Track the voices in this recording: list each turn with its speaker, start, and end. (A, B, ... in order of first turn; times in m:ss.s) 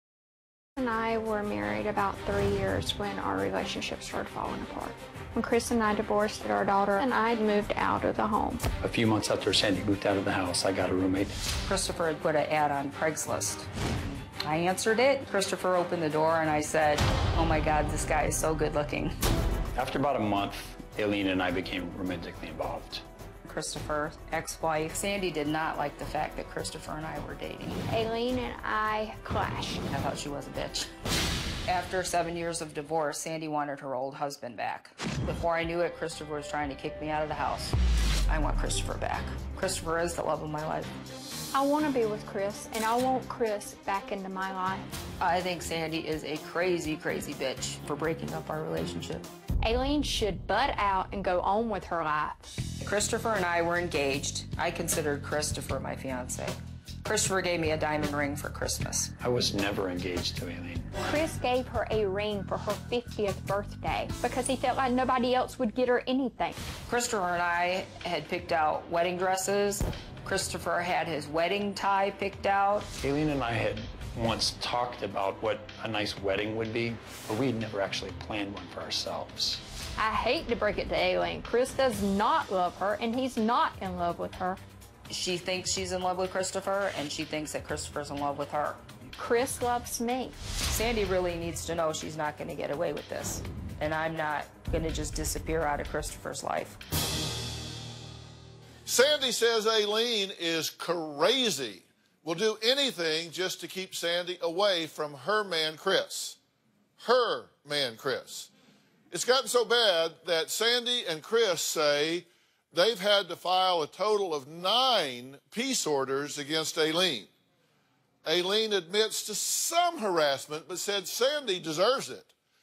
0:00.8-0:08.6 A
0:08.8-0:11.4 B
0:11.7-0:13.7 C
0:14.4-0:19.1 C
0:19.7-0:23.0 B
0:23.4-0:27.8 C
0:27.9-0:29.8 A
0:29.9-0:30.9 C
0:31.7-0:37.8 C
0:38.3-0:40.9 C
0:41.5-0:44.9 A
0:45.2-0:49.3 C
0:49.6-0:52.4 A
0:52.8-0:59.1 C
0:59.2-1:00.9 B
1:01.0-1:06.7 A
1:06.9-1:12.9 C
1:13.0-1:19.6 B
1:20.0-1:24.6 A
1:25.1-1:28.8 C
1:29.2-1:30.4 A
1:30.7-1:36.8 C
1:38.8-1:46.4 D
1:47.0-1:48.5 D
1:49.1-1:57.3 D
1:58.2-2:02.3 D